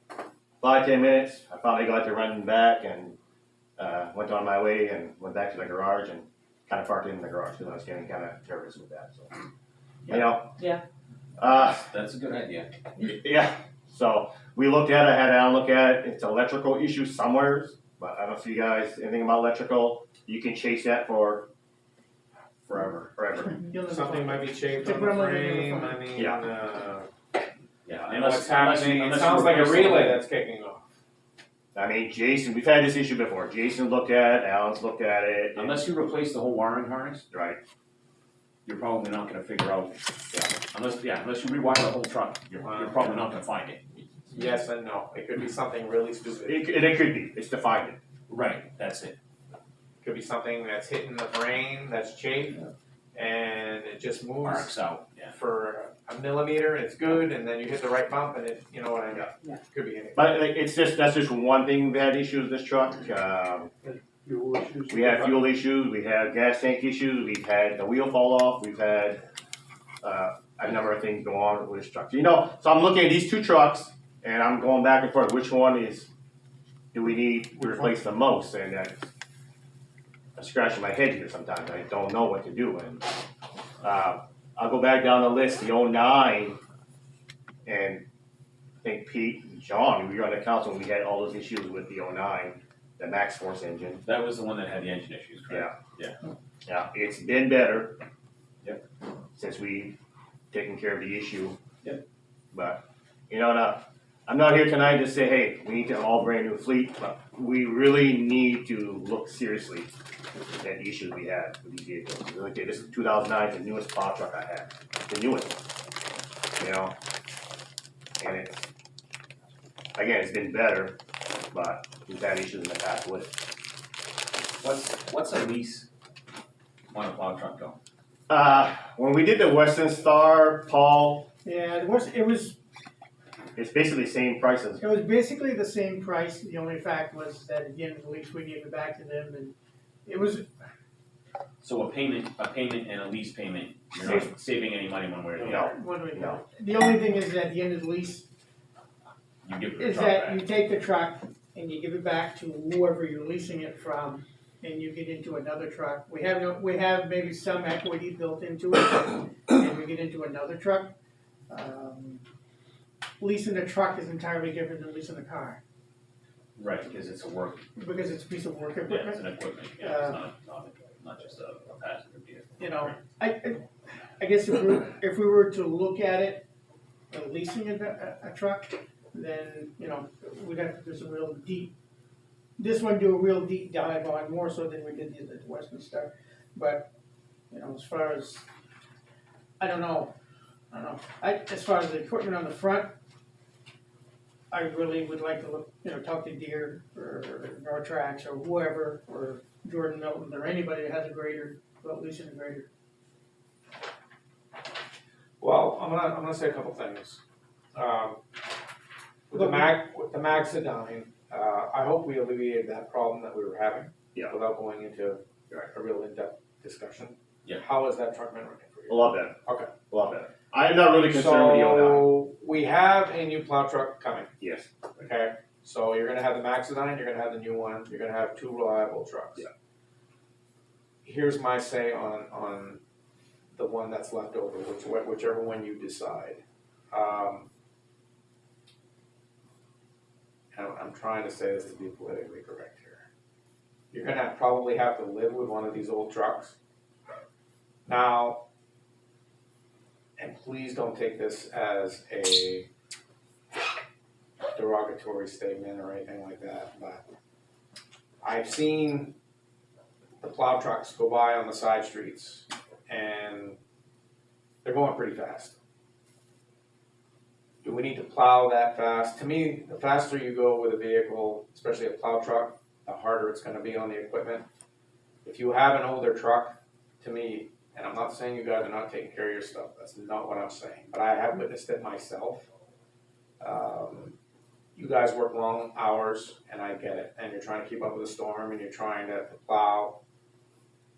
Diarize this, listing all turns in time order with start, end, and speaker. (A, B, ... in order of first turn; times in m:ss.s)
0:00.6-0:03.2 A
0:03.8-0:09.3 A
0:10.1-0:10.6 A
0:11.4-0:11.9 A
0:11.5-0:12.7 B
0:13.0-0:21.5 A
0:22.7-0:23.6 A
0:23.5-0:26.2 C
0:23.9-0:27.1 D
0:26.2-0:26.4 A
0:27.8-0:30.2 B
0:28.1-0:30.9 D
0:31.7-0:35.8 A
0:35.5-0:37.2 B
0:37.3-0:37.6 A
0:38.6-0:40.0 B
0:40.6-0:43.8 B
0:42.6-0:43.1 D
0:44.2-0:46.6 D
0:46.4-0:48.0 A
0:48.3-0:49.2 B
0:50.0-0:54.8 D
0:54.4-0:55.3 B
0:55.3-1:00.3 D
1:00.1-1:03.7 A
1:04.2-1:05.2 D
1:04.9-1:09.2 A
1:10.0-1:16.1 A
1:16.9-1:19.0 A
1:20.4-1:23.0 A
1:23.8-1:26.6 A
1:27.6-1:28.0 A
1:28.8-1:34.0 A
1:34.0-1:36.2 B
1:36.6-1:38.0 A
1:39.3-1:40.0 A
1:40.5-1:41.6 A
1:42.5-1:49.9 A
1:50.5-1:55.6 A
1:56.6-1:56.9 A
1:58.2-1:58.7 A
2:00.0-2:01.0 A
2:01.5-2:03.4 A
2:04.6-2:05.9 B
2:06.9-2:07.8 B
2:08.3-2:11.3 A
2:11.4-2:12.6 C
2:13.6-2:14.8 A
2:14.8-2:20.5 C
2:21.6-2:25.7 B
2:24.0-2:24.3 A
2:25.4-2:26.4 A
2:25.5-2:28.3 C
2:29.4-2:30.4 B
2:29.8-2:40.9 C
2:41.5-2:42.2 C
2:43.2-2:45.6 C
2:46.6-2:47.7 B
2:47.8-2:49.2 C
2:48.8-2:53.0 B
2:49.8-2:50.2 C
2:52.6-2:53.6 C
2:54.2-2:56.4 C
2:57.1-3:01.7 C
3:02.6-3:06.9 C
3:07.5-3:08.4 C
3:09.6-3:10.1 C
3:10.7-3:12.9 C
3:14.5-3:22.7 C
3:25.4-3:27.2 D
3:27.7-3:28.2 D
3:29.3-3:39.7 D
3:29.3-3:29.8 C
3:38.9-3:39.4 A
3:39.9-3:42.1 A
3:41.0-3:44.3 D
3:44.4-3:44.7 A
3:45.0-3:49.4 D
3:51.0-3:52.8 D
3:53.5-3:57.5 D
4:00.5-4:03.0 D
4:03.9-4:06.6 D
4:07.8-4:08.4 D
4:10.2-4:12.7 D
4:14.5-4:17.0 D
4:18.2-4:19.2 D
4:20.2-4:23.6 D
4:24.6-4:25.6 D
4:27.6-4:34.4 D
4:35.2-4:42.5 D
4:43.4-4:44.1 D
4:44.8-4:50.0 D